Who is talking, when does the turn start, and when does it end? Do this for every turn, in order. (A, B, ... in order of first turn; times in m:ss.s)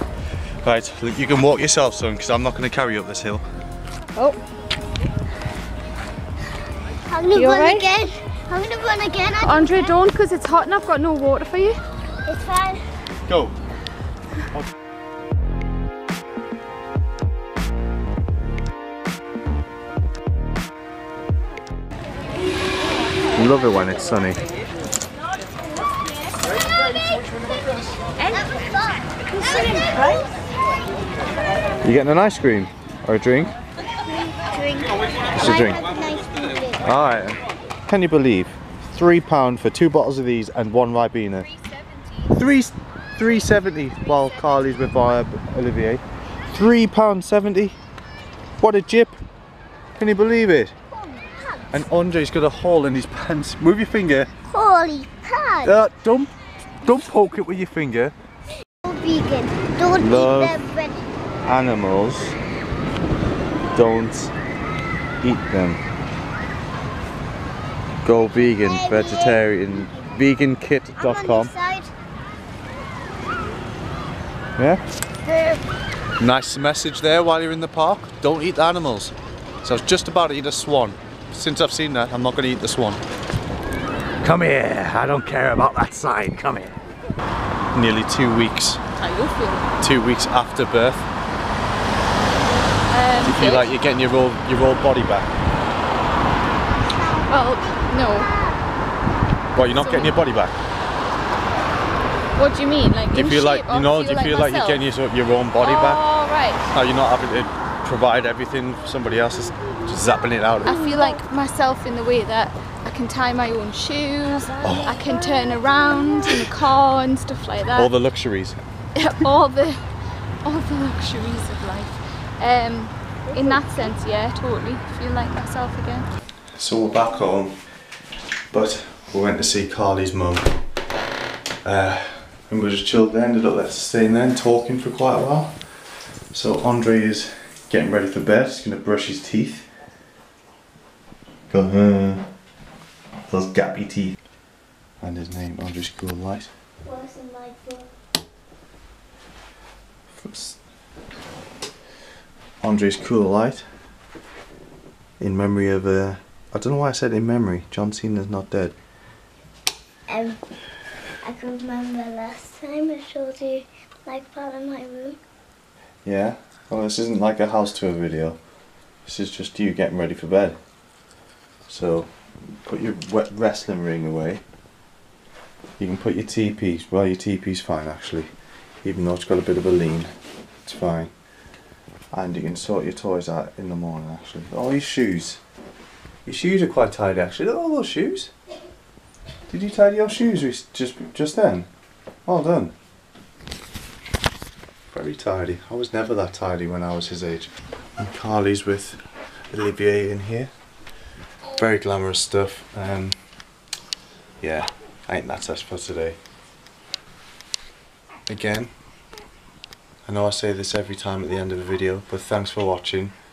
0:00.6-0:03.4 A
0:07.0-0:10.0 B
0:07.3-0:07.9 C
0:09.4-0:11.8 C
0:12.2-0:12.8 B
0:13.3-0:13.6 A
0:23.3-0:24.4 A
0:28.3-0:30.2 B
0:31.8-0:33.5 A
0:34.1-0:36.9 B
0:35.4-0:35.8 A
0:36.8-0:41.5 A
0:42.3-0:47.8 A
0:48.6-0:49.1 A
0:50.0-0:50.7 A
0:50.9-0:51.8 B
0:51.7-0:54.3 A
0:54.5-0:55.7 B
0:55.6-0:56.3 A
0:56.8-0:58.1 A
0:58.8-1:01.0 B
1:00.0-1:00.6 A
1:01.4-1:02.4 A
1:03.7-1:04.3 A
1:05.2-1:05.8 A
1:08.0-1:11.5 A
1:08.4-1:10.2 B
1:11.0-1:11.9 B
1:15.2-1:15.6 B
1:16.2-1:23.0 A
1:24.2-1:26.7 A
1:27.7-1:28.8 A
1:29.0-1:29.8 C
1:29.8-1:31.1 A
1:32.9-1:33.7 C
1:33.2-1:35.3 A
1:36.7-1:37.6 B
1:37.3-1:38.3 C
1:38.2-1:38.6 B
1:39.5-1:40.5 A
1:39.7-1:40.2 C
1:42.4-1:44.9 C
1:43.1-1:46.0 A
1:45.6-1:46.6 C
1:46.7-1:50.8 A
1:49.6-1:51.2 B
1:50.6-1:57.9 C
1:54.3-1:56.5 B
1:54.6-1:55.0 A
1:57.7-1:58.6 A
1:58.9-2:06.1 C
2:03.3-2:03.9 B
2:06.5-2:07.8 A
2:08.5-2:10.5 A
2:11.6-2:15.6 A
2:16.3-2:19.7 A
2:21.5-2:22.2 A
2:23.3-2:24.2 A
2:25.0-2:26.5 A
2:26.8-2:27.9 B
2:30.1-2:30.6 A
2:32.6-2:33.6 A
2:35.2-2:38.7 A
2:40.1-2:40.4 B
2:41.2-2:45.2 B
2:46.0-2:48.4 A
2:49.0-2:50.6 A
2:51.7-2:54.4 A
2:55.8-2:58.3 A
2:58.8-3:00.1 A
3:00.6-3:01.1 A
3:02.1-3:05.4 A
3:06.2-3:08.3 A
3:09.5-3:11.7 A
3:12.2-3:12.7 A
3:14.9-3:19.0 A
3:19.5-3:20.5 A
3:21.5-3:23.2 A
3:24.4-3:26.2 A
3:28.3-3:28.7 A
3:30.0-3:33.1 A